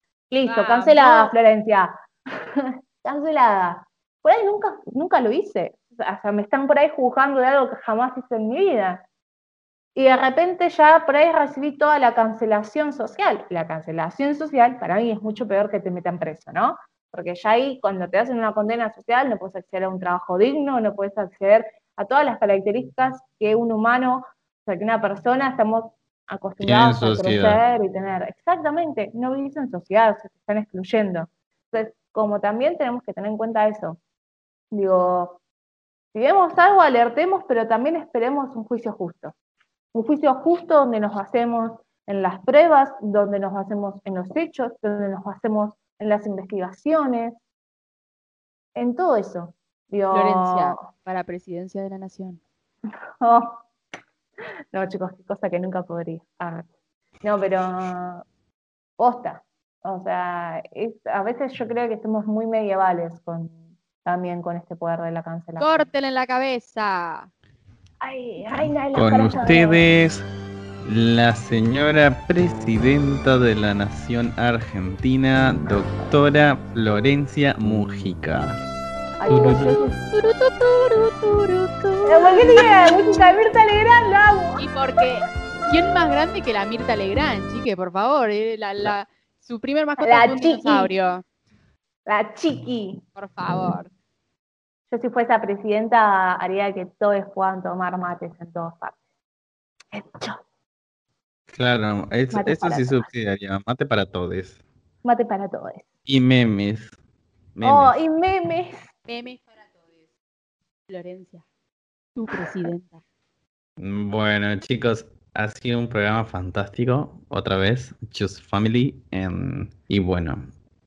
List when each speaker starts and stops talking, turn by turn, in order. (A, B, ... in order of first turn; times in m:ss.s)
0:00.3-0:01.9 A
0:00.4-0:01.3 B
0:02.5-0:09.0 A
0:10.0-0:34.0 A
0:26.6-0:27.6 C
0:34.7-0:35.4 A
0:36.1-0:39.3 A
0:39.9-0:47.4 A
0:48.7-0:50.8 A
0:50.1-0:52.4 B
0:53.2-0:53.6 A
0:54.7-0:56.7 A
0:57.2-0:58.2 A
0:59.0-1:05.9 A
1:05.6-1:07.3 B
1:08.0-1:09.8 A
1:08.9-1:10.2 C
1:10.8-1:18.6 C
1:19.2-1:23.2 B
1:19.3-1:19.8 C
1:22.0-1:24.6 A
1:24.6-1:31.2 B
1:30.0-1:30.9 A
1:32.0-1:33.0 A
1:33.1-1:33.9 B
1:34.9-1:39.0 A
1:39.9-1:40.4 A
1:41.5-1:44.6 C
1:42.3-1:43.1 A
1:45.0-1:45.8 A
1:46.1-1:46.9 C
1:47.6-1:47.9 C
1:47.6-1:48.9 A
1:49.1-1:50.0 B
1:50.9-1:51.4 B
1:52.2-1:53.0 B
1:53.8-2:00.4 C